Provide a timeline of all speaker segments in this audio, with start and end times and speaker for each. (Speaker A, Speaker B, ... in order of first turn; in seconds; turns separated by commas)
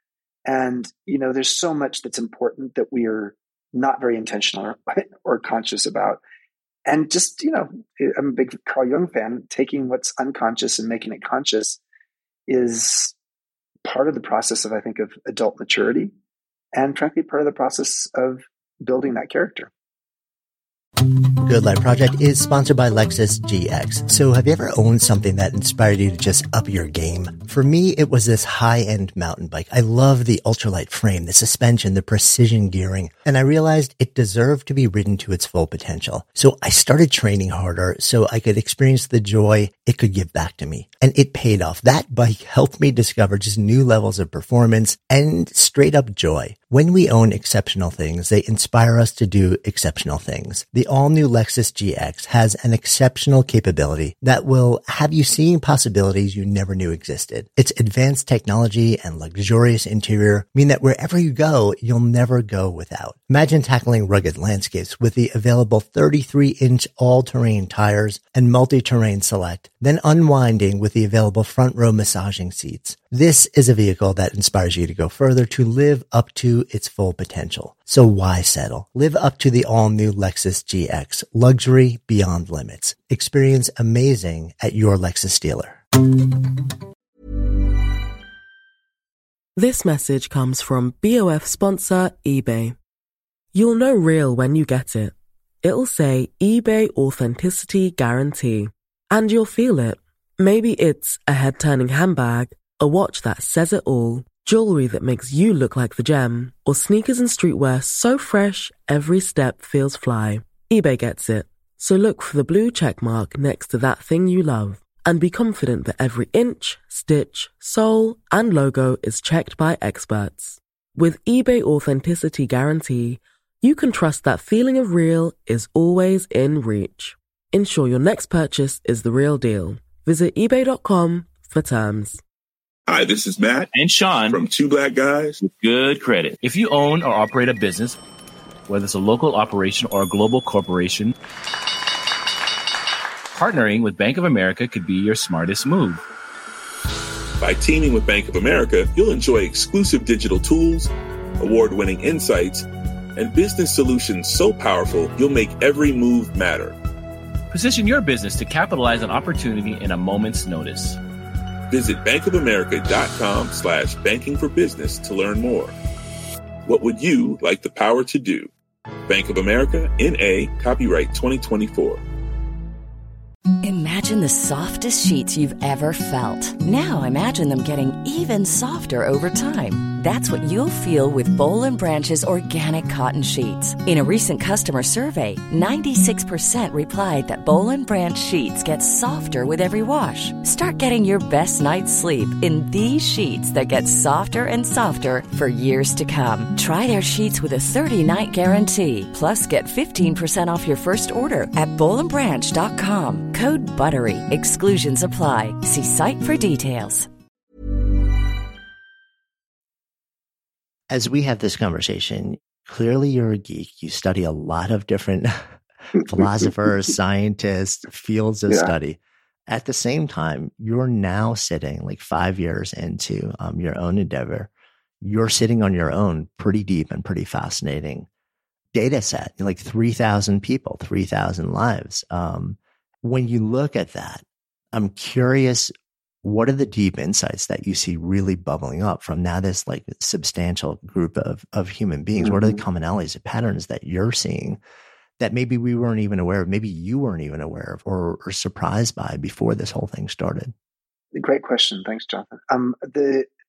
Speaker A: 0.5-6.2, Speaker A: 6.9-11.8, Speaker A: 12.5-13.1, Speaker A: 13.8-16.1, Speaker A: 16.7-19.7, Speaker B: 21.3-85.8, Speaker C: 89.5-92.8, Speaker C: 93.5-132.2, Speaker D: 132.9-133.7, Speaker E: 133.7-134.5, Speaker D: 134.3-135.4, Speaker E: 135.4-138.0, Speaker E: 138.7-141.1, Speaker E: 143.3-146.0, Speaker D: 147.4-156.8, Speaker E: 157.5-161.0, Speaker D: 161.7-165.7, Speaker D: 166.6-168.5, Speaker D: 169.1-172.0, Speaker F: 173.6-207.1, Speaker B: 210.9-224.5, Speaker B: 225.0-228.1, Speaker B: 228.7-235.7, Speaker B: 236.2-244.6, Speaker A: 242.2-242.6, Speaker B: 245.2-250.5, Speaker A: 251.1-253.3